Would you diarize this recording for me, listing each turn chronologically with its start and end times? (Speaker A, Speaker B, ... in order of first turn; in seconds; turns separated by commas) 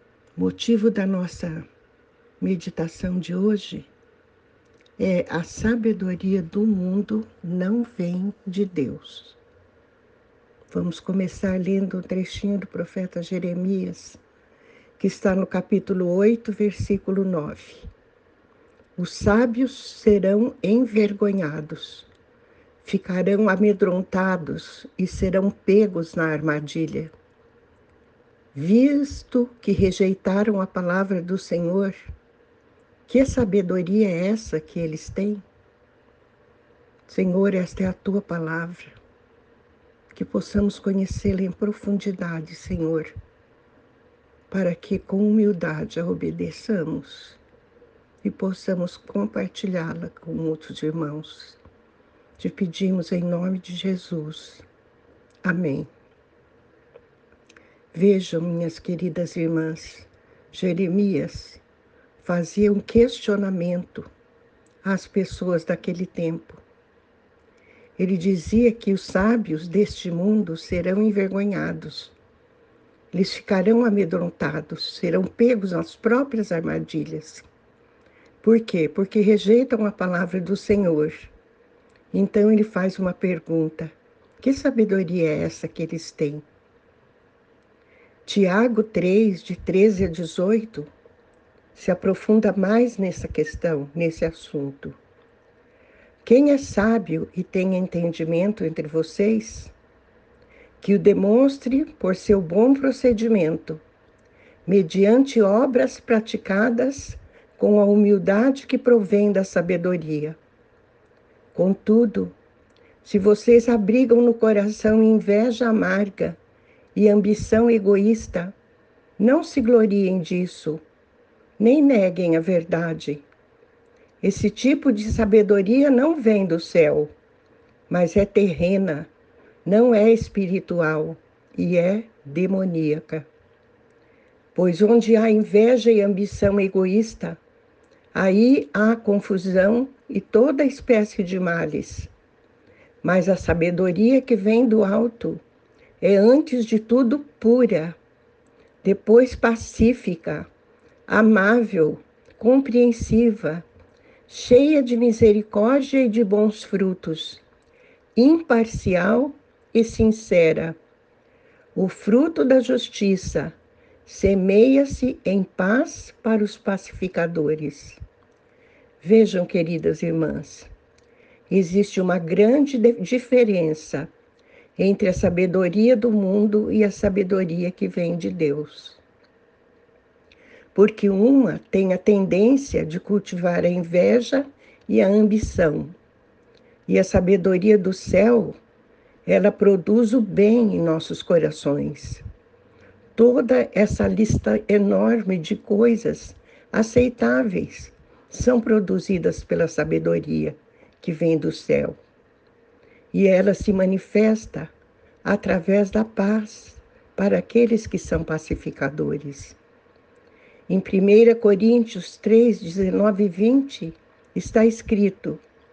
Speaker A: 0.3-1.6, Speaker A: 2.4-3.9, Speaker A: 5.0-9.4, Speaker A: 10.7-14.2, Speaker A: 15.0-17.9, Speaker A: 19.0-22.1, Speaker A: 22.8-27.1, Speaker A: 28.5-32.1, Speaker A: 33.1-35.4, Speaker A: 37.1-39.0, Speaker A: 40.1-43.1, Speaker A: 44.5-47.4, Speaker A: 48.2-51.6, Speaker A: 52.4-54.6, Speaker A: 55.4-55.9, Speaker A: 57.9-61.6, Speaker A: 62.2-64.1, Speaker A: 64.8-66.6, Speaker A: 68.0-72.1, Speaker A: 73.1-77.4, Speaker A: 78.4-81.3, Speaker A: 82.1-86.4, Speaker A: 88.2-90.9, Speaker A: 91.7-95.0, Speaker A: 96.2-99.7, Speaker A: 100.8-103.8, Speaker A: 104.7-110.4, Speaker A: 111.5-112.3, Speaker A: 113.0-116.4, Speaker A: 116.9-118.5, Speaker A: 119.2-120.8, Speaker A: 121.6-123.3, Speaker A: 124.2-127.1, Speaker A: 127.9-129.1, Speaker A: 129.6-133.3, Speaker A: 134.5-137.4, Speaker A: 138.1-142.1, Speaker A: 143.0-145.4, Speaker A: 146.0-148.0, Speaker A: 148.8-150.5, Speaker A: 151.1-153.7, Speaker A: 154.3-157.4, Speaker A: 158.2-160.8, Speaker A: 161.7-168.0, Speaker A: 169.0-170.7, Speaker A: 171.5-174.1, Speaker A: 174.8-179.0, Speaker A: 180.7-185.9, Speaker A: 186.9-188.5, Speaker A: 189.2-192.2, Speaker A: 193.1-202.0, Speaker A: 203.1-204.7, Speaker A: 205.2-209.6, Speaker A: 210.7-215.4